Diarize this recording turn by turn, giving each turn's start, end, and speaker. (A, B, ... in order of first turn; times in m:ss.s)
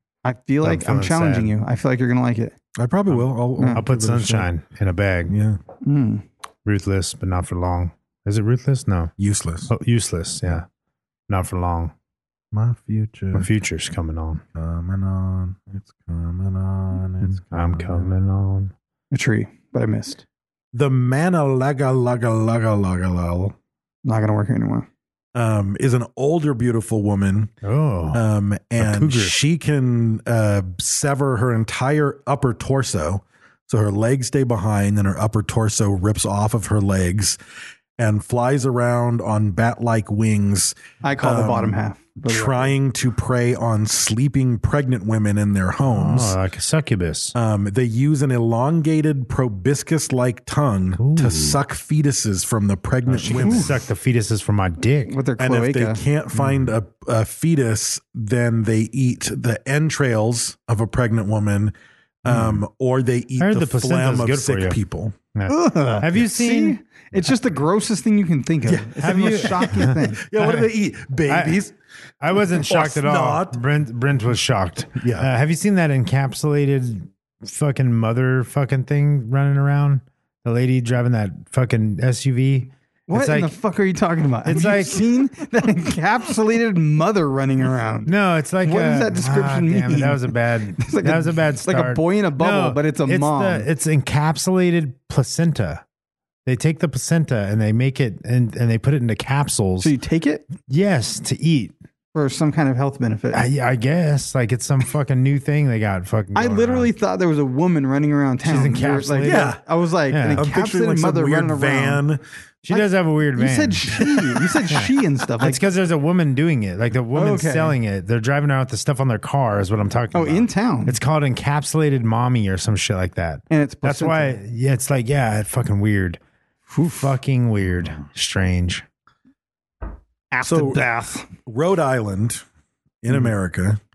0:00.2-0:02.6 A
0:00.6-0:01.5 B
0:02.8-0:04.5 C
0:03.1-0:05.4 B
0:03.6-0:03.8 A
0:05.3-0:05.6 C
0:05.8-0:06.2 A
0:06.6-0:09.1 B
0:09.2-0:09.7 C
0:09.7-0:10.6 B
0:11.3-0:11.9 B
0:12.5-0:13.5 C
0:13.3-0:14.4 B
0:14.6-0:18.1 C
0:17.5-0:18.7 B
0:19.1-0:20.2 A
0:20.7-0:23.6 C
0:24.0-0:24.9 A
0:25.4-0:27.5 C
0:27.6-0:28.2 B
0:28.1-0:37.4 C
0:28.8-0:29.4 B
0:38.0-0:46.4 C
0:41.0-0:42.7 A
0:45.9-0:47.4 B
0:47.4-0:53.8 C
0:51.0-0:51.6 B
0:53.1-0:55.2 B
0:53.4-0:53.6 A
0:55.1-0:56.0 A
0:55.4-1:05.2 C
0:56.3-0:56.7 B
1:02.3-1:02.6 B
1:03.4-1:04.8 B
1:05.4-1:06.8 B
1:05.5-1:10.2 A
1:08.7-1:11.7 C
1:09.0-1:10.7 B
1:11.3-1:11.6 B
1:12.2-1:23.5 B
1:12.3-1:13.6 C
1:15.0-1:15.3 C
1:23.1-1:28.1 A
1:24.4-1:25.1 B
1:28.1-1:35.8 B
1:28.6-1:33.7 A
1:36.5-1:39.9 B
1:39.8-1:40.5 A
1:40.7-1:41.7 B
1:42.2-1:43.4 A
1:43.3-1:46.9 B
1:46.4-1:52.0 A
1:48.4-1:49.5 B
1:49.2-1:49.6 C
1:50.1-1:50.4 B
1:50.2-1:52.2 C
1:52.6-2:06.2 B
1:52.7-1:55.6 A
1:57.1-1:57.8 A
2:00.1-2:01.0 A
2:03.5-2:04.4 A
2:06.7-2:07.0 A
2:06.8-2:08.8 B
2:10.3-2:11.3 A
2:10.4-2:10.8 C
2:11.5-2:12.4 C
2:13.0-2:13.8 C